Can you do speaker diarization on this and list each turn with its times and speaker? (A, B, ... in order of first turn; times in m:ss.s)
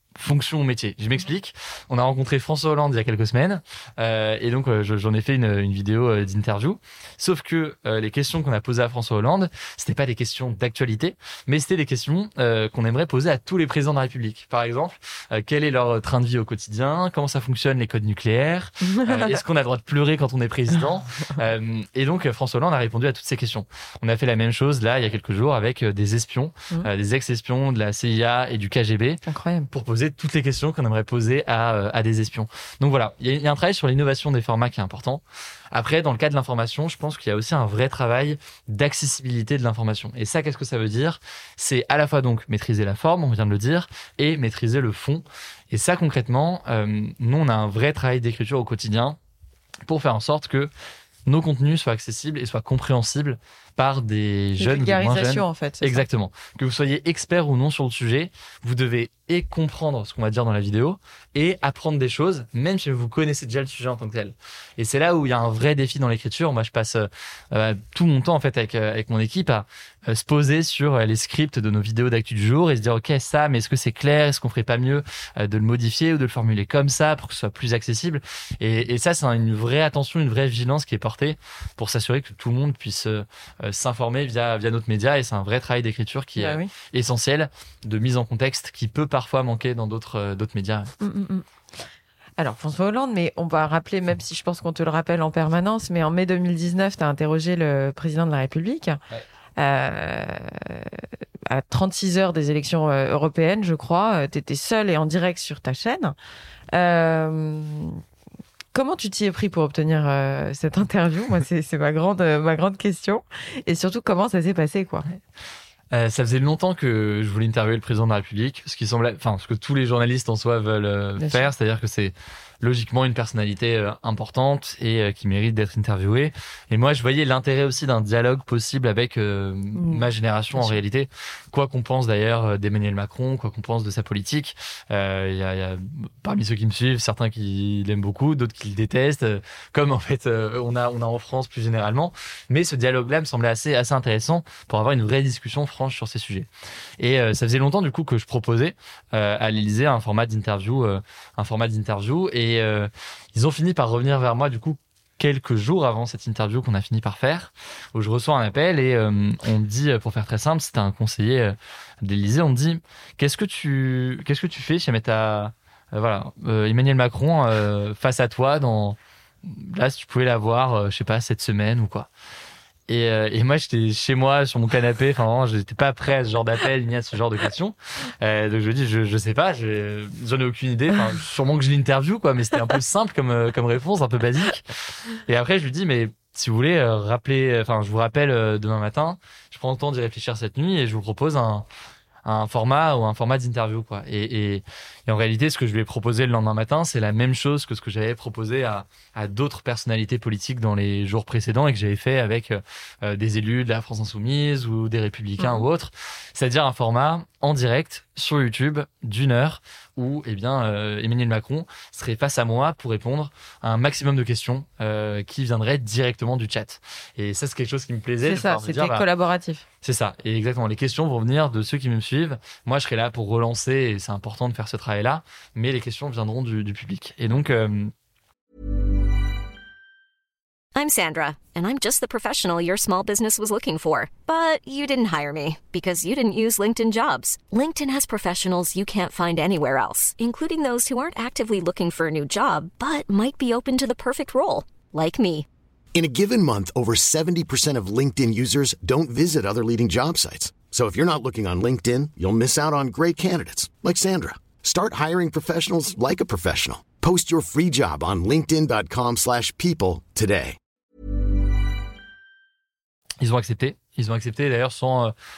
0:00.2-0:49.2 A
0:18.8-0:19.4 B
0:29.2-0:29.7 B
0:49.8-0:50.7 A
0:51.3-1:30.9 A
0:54.6-0:56.0 B
1:26.4-1:26.7 B
1:31.0-1:31.4 B
1:32.4-1:39.0 B
1:39.6-1:46.1 B
1:46.7-1:48.0 B
1:48.7-1:55.0 B
1:55.9-2:52.1 A
2:01.2-2:01.5 B
2:09.7-2:10.8 B
2:52.9-3:11.6 A
3:12.2-3:39.0 A
3:25.4-3:25.6 B
3:38.2-3:39.6 B
3:39.8-3:47.9 A
3:50.7-4:05.4 C
4:05.9-4:20.6 D
4:23.2-4:25.1 A